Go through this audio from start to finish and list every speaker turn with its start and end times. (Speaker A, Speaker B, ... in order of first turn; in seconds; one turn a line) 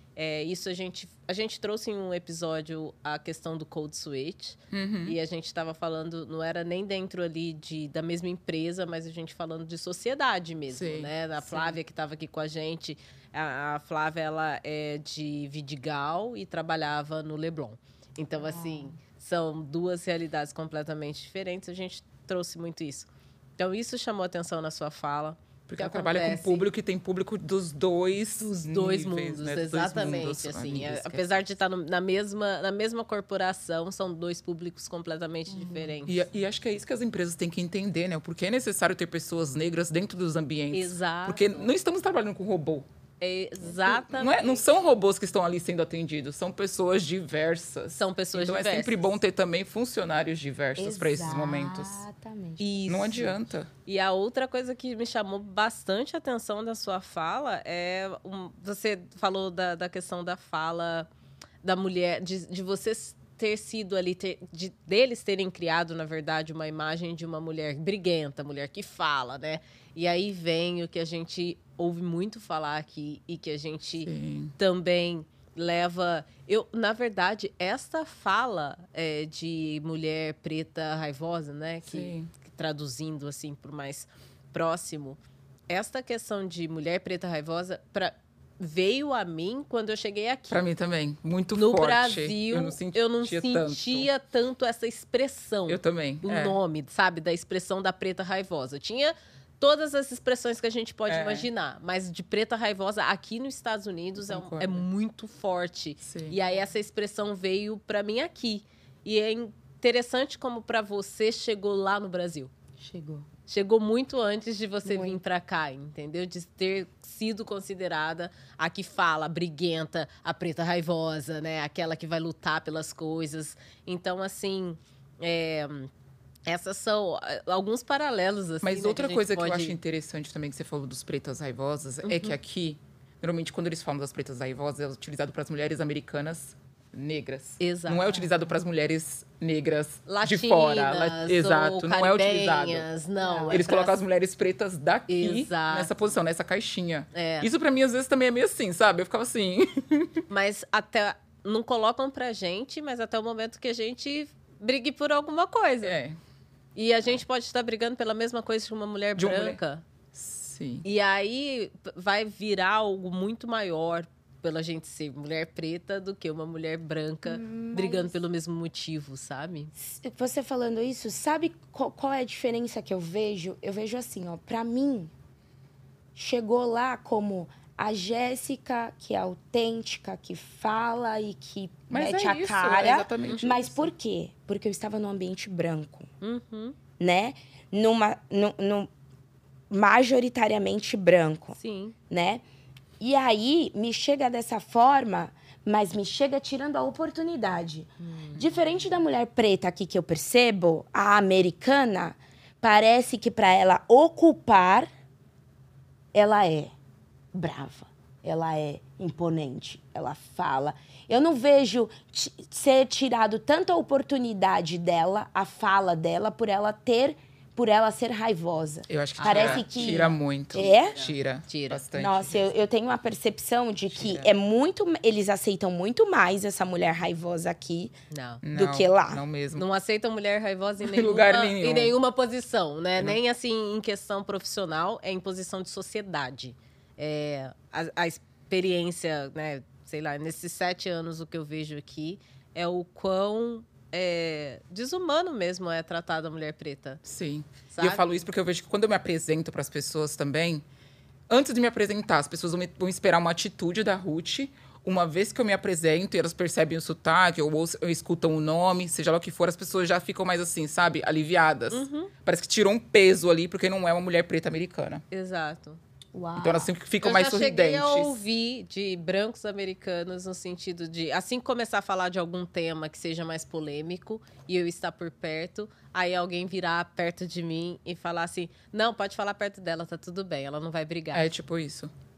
Speaker A: 0.2-26.7
Speaker B: 4.7-5.2
Speaker B: 10.7-11.1
Speaker C: 18.4-18.9
Speaker B: 25.7-31.4
Speaker A: 28.4-36.2
Speaker B: 35.5-42.9
Speaker A: 40.7-41.7
Speaker A: 43.2-44.6
Speaker B: 43.9-52.0
Speaker A: 47.9-49.1
Speaker C: 50.8-52.8
Speaker A: 52.6-53.3
Speaker B: 52.9-53.7
Speaker A: 53.9-61.1
Speaker A: 61.6-85.2
Speaker B: 74.0-74.5
Speaker B: 81.9-82.3
Speaker A: 85.7-90.7
Speaker B: 90.5-94.1
Speaker A: 91.5-112.5
Speaker B: 95.7-96.6
Speaker B: 101.1-101.5
Speaker B: 104.2-104.8
Speaker B: 106.0-106.4
Speaker C: 112.8-113.3
Speaker A: 113.5-125.9
Speaker C: 114.8-115.2
Speaker A: 126.5-129.8
Speaker B: 128.6-142.9
Speaker A: 132.0-132.4
Speaker A: 137.6-138.2
Speaker A: 140.1-144.0
Speaker C: 143.2-143.6
Speaker B: 143.5-150.2
Speaker A: 145.1-145.9
Speaker A: 147.1-147.5
Speaker A: 150.3-156.0
Speaker B: 155.8-156.2
Speaker A: 156.8-159.8
Speaker B: 159.2-159.6
Speaker B: 160.1-160.8
Speaker A: 160.8-169.7
Speaker C: 167.2-168.2
Speaker C: 169.8-175.1
Speaker C: 176.2-186.1
Speaker B: 181.9-183.9
Speaker A: 186.2-186.8
Speaker C: 187.0-188.9
Speaker C: 189.7-191.6
Speaker A: 191.6-191.9
Speaker C: 192.1-192.4
Speaker C: 193.0-204.9
Speaker A: 198.0-198.4
Speaker C: 206.1-206.7
Speaker C: 207.3-221.0
Speaker B: 218.9-222.4
Speaker A: 219.2-221.8
Speaker C: 221.9-227.9
Speaker A: 224.0-224.3
Speaker A: 228.1-228.4
Speaker B: 228.4-229.7
Speaker C: 228.5-229.2
Speaker A: 229.6-247.0
Speaker B: 230.8-231.9
Speaker B: 247.1-250.6
Speaker A: 247.7-248.1
Speaker B: 251.3-265.0
Speaker A: 261.7-262.1
Speaker A: 265.1-265.8
Speaker C: 266.1-266.7
Speaker B: 266.4-268.2
Speaker A: 267.0-281.3
Speaker B: 281.1-281.9